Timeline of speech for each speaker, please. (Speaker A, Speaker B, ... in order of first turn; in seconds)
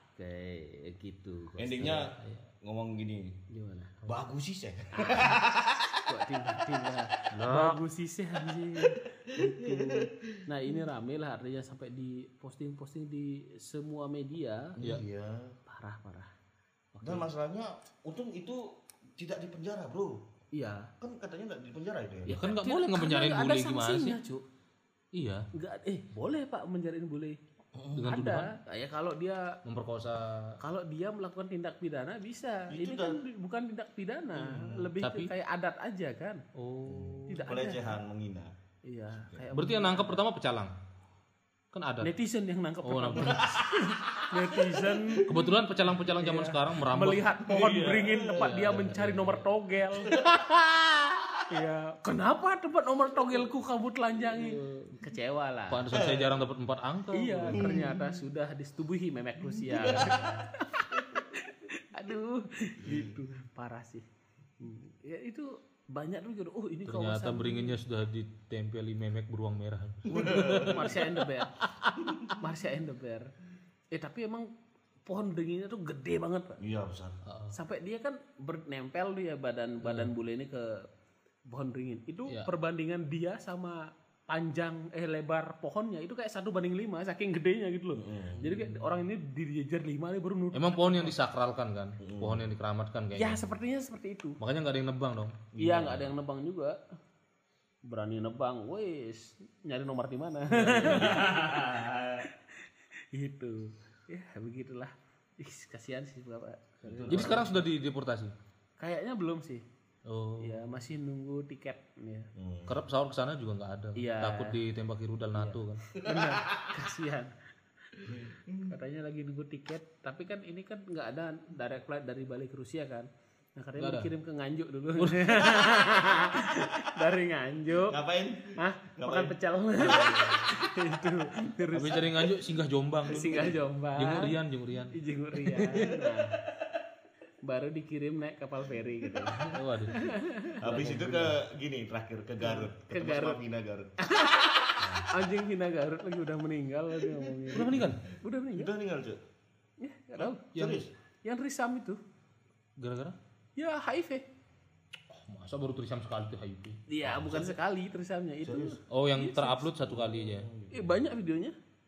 Speaker A: 0.2-2.1, 3.5-4.2, 4.9-5.4, 6.1-14.8, 15.7-16.3, 16.9-17.3, 20.5-20.9, 22.3-24.4, 25.5-27.4, 28.0-29.5, 30.6-36.4, 37.3-38.0, 38.9-40.2, 42.0-45.4, 46.0-55.8, 57.1-64.1, 64.6-67.8, 70.2-73.3, 73.9-74.5, 75.0-76.6, 77.5-80.8, 81.5-91.2, 93.2-94.4, 95.6-96.8, 97.8-101.7, 103.1-107.7, 108.8-109.6, 110.4-112.3, 114.0-114.6, 115.3-117.3, 118.7-128.0, 128.6-132.3, 133.1-134.4, 134.9-136.4, 137.4-141.4, 142.4-143.4, 144.0-148.7, 149.8-150.5, 151.2-152.0, 153.6-154.2, 156.9-159.7, 160.7-161.5
Speaker B: 1.6-3.4, 4.0-6.0, 8.8-10.4, 14.8-15.6, 17.0-20.2, 21.0-22.4, 27.8-28.1, 32.7-33.2, 34.3-34.9, 36.9-38.5, 43.3-45.2, 47.4-48.6, 50.0-50.4, 55.9-56.4, 57.5-58.1, 59.4-60.4, 62.8-63.1, 70.1-71.0, 76.6-77.2, 88.0-88.5, 92.0-92.5, 95.5-96.1, 100.8-102.2, 106.8-107.6, 112.3-112.8, 116.1-116.7, 118.0-118.7, 127.8-129.4, 140.6-143.9, 147.2-147.7, 148.5-149.2, 150.2-150.9, 157.0-157.6, 158.4-158.8, 159.8-161.0
Speaker C: 2.2-2.4, 7.3-7.8, 22.3-24.2, 25.1-25.5, 27.9-28.5, 29.6-30.6, 35.0-35.3, 36.6-37.5, 39.5-40.8, 41.7-42.1, 42.8-43.5, 45.2-47.3, 48.3-49.5, 54.3-54.9, 55.7-57.7, 60.0-60.3, 66.9-71.1, 77.3-77.5, 79.8-80.1, 88.4-88.8, 90.5-93.4, 94.4-95.4, 100.5-101.3, 107.1-108.3, 110.1-110.6, 112.7-115.8, 123.8-124.1, 125.0-125.8, 129.8-130.6, 131.7-135.8, 139.5-140.0, 144.8-145.1, 147.5-148.0, 150.5-150.8, 152.8-153.2, 155.1-156.8, 158.9-160.5